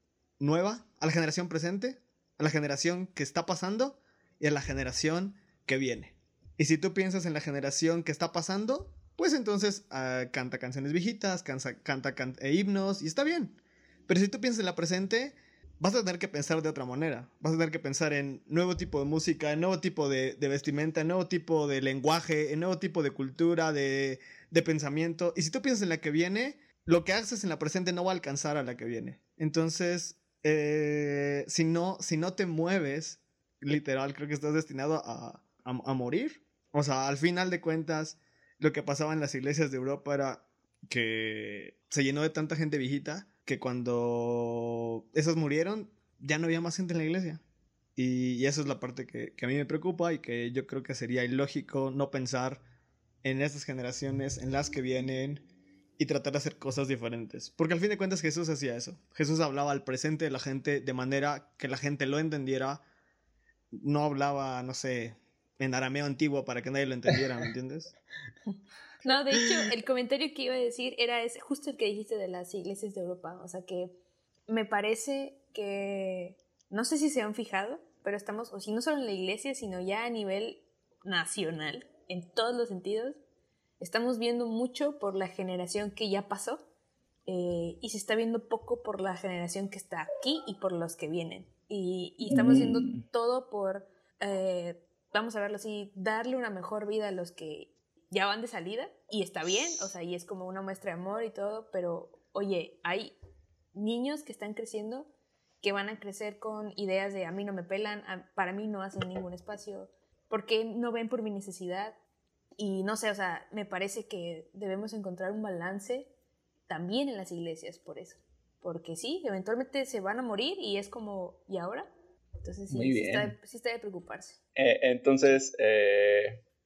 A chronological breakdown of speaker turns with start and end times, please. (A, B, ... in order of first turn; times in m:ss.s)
0:00.4-0:47.4 A
0:48.0-0:52.6 A
0:53.2-0:55.4 A
0:56.0-1:02.8 A
1:03.7-1:07.9 A
1:09.0-1:13.9 B
1:09.4-1:09.7 C
1:14.5-1:23.2 B
1:23.8-1:26.6 B
1:27.3-1:43.1 B
1:32.3-1:33.0 C
1:43.7-1:45.1 B
1:45.6-1:52.0 B
1:52.6-1:56.1 B
1:56.7-2:01.9 B
2:02.4-2:04.4 B
2:02.7-2:03.3 C
2:04.6-2:06.4 C